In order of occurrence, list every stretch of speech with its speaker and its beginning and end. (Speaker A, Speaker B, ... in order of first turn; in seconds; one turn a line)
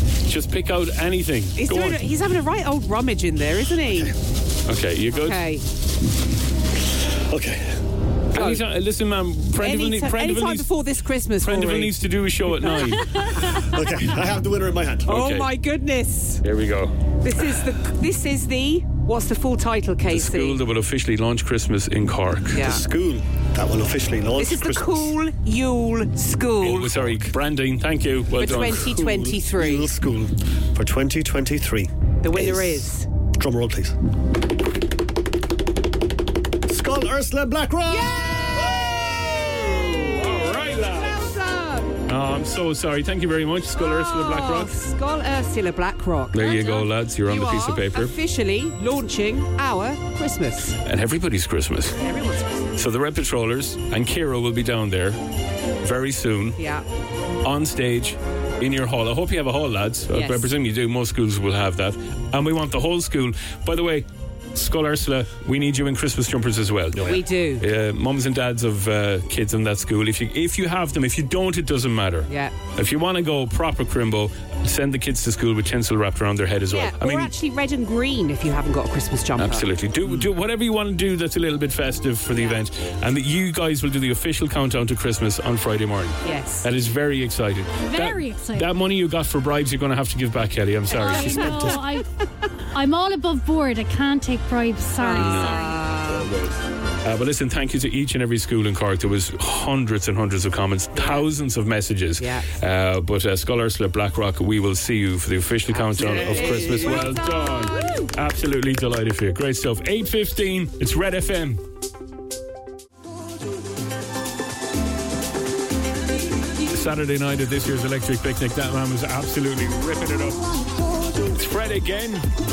Speaker A: 0.2-2.0
Speaker B: 1.6-4.1
Speaker A: 4.7-5.4
Speaker B: 5.1-5.6
Speaker C: 7.3-7.8
Speaker A: 8.3-10.7
Speaker B: 8.3-8.6
Speaker B: 9.6-11.9
Speaker A: 11.4-13.1
Speaker B: 12.6-12.9
Speaker C: 13.5-15.2
Speaker B: 15.1-16.4
Speaker A: 15.1-15.5
Speaker A: 16.4-16.9
Speaker B: 17.2-20.6
Speaker A: 20.1-22.6
Speaker B: 22.5-22.8
Speaker C: 22.5-25.1
Speaker B: 24.4-26.9
Speaker A: 26.6-29.1
Speaker B: 28.4-29.9
Speaker C: 28.8-34.0
Speaker B: 32.2-33.1
Speaker C: 36.7-40.0
Speaker B: 37.9-38.8
Speaker B: 39.7-42.0
Speaker A: 39.9-41.3
Speaker A: 42.1-44.7
Speaker B: 43.8-50.8
Speaker A: 46.3-48.1
Speaker A: 50.8-52.0
Speaker B: 52.0-52.7
Speaker A: 52.8-55.2
Speaker A: 55.8-56.6
Speaker B: 56.6-56.8
Speaker A: 57.4-77.3
Speaker B: 60.1-60.5
Speaker B: 67.0-67.6
Speaker B: 72.3-72.5
Speaker B: 76.7-79.7
Speaker A: 79.4-91.8
Speaker B: 86.2-86.7
Speaker D: 87.9-88.7
Speaker D: 90.9-92.0
Speaker B: 91.0-91.7
Speaker D: 92.7-95.7
Speaker B: 95.0-96.3
Speaker A: 95.1-95.7
Speaker A: 97.0-111.6
Speaker B: 102.2-102.5
Speaker B: 105.7-108.1
Speaker A: 116.7-120.5
Speaker A: 121.3-122.2